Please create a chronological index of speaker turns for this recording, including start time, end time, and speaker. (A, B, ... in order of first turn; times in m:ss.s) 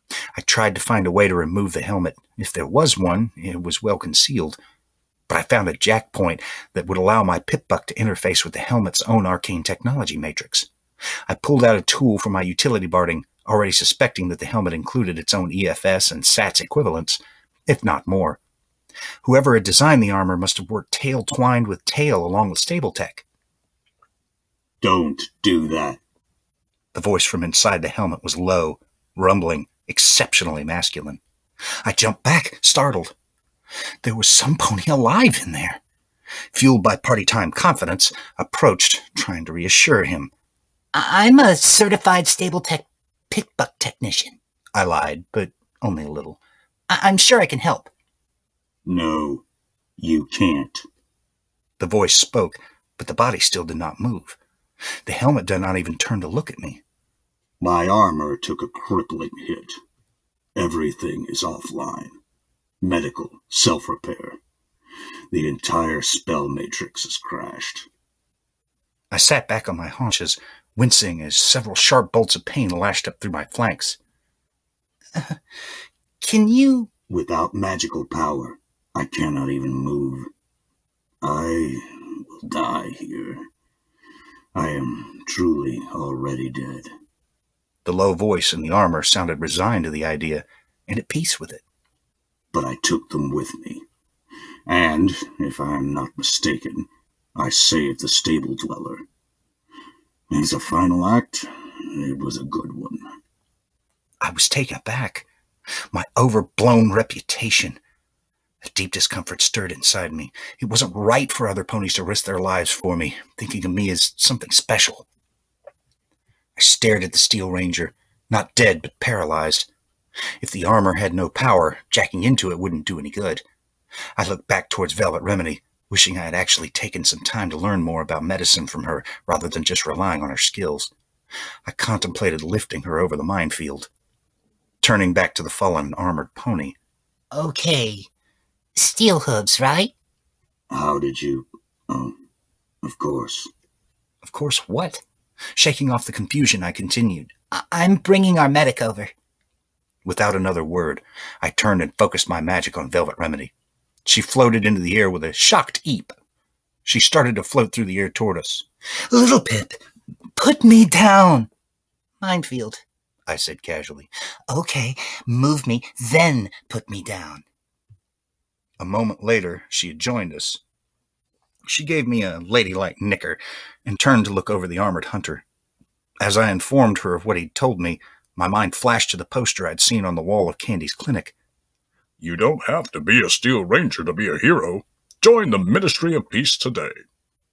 0:00.4-0:04.6 A
0:05.3-0:10.7 A
0:11.3-0:18.4 A
0:19.2-0:23.2 A
0:24.8-0:26.0 B
0:26.9-0:31.2 A
0:31.8-0:33.2 A
0:34.0-0:35.8 A
0:36.5-0:40.3 A
0:40.9-0:44.4 C
0:44.8-0:46.4 A
0:46.9-0:47.9 C
0:48.8-0:49.4 B
0:50.0-0:50.8 B
0:51.8-0:54.4 A
0:55.1-0:56.8 A
0:57.6-0:59.8 B
1:00.6-1:02.2 B
1:02.8-1:04.4 B
1:05.3-1:07.9 B
1:09.1-1:14.0 A
1:16.2-1:16.9 A
1:17.1-1:20.3 B
1:21.2-1:23.5 B
1:24.6-1:26.9 B
1:27.8-1:31.6 A
1:32.5-1:33.9 B
1:34.7-1:39.1 B
1:40.3-1:43.1 B
1:44.2-1:45.3 A
1:45.9-1:47.8 A
1:48.6-1:55.1 A
1:56.6-1:59.7 A
2:00.4-2:03.4 A
2:04.2-2:10.9 A
2:11.6-2:13.9 A
2:14.8-2:16.8 A
2:17.3-2:18.1 C
2:18.8-2:19.9 C
2:20.7-2:22.2 B
2:22.8-2:23.5 B
2:24.2-2:25.0 A
2:25.6-2:27.3 A
2:27.5-2:29.1 C
2:30.0-2:33.5 A
2:34.0-2:36.2 A
2:36.8-2:38.7 A
2:39.1-2:39.8 C
2:40.4-2:41.5 C
2:42.2-2:42.8 C
2:43.3-2:44.1 A
2:44.5-2:47.4 C
2:48.8-2:50.6 A
2:51.7-2:55.4 A
2:56.2-3:01.3 A
3:02.2-3:07.0 D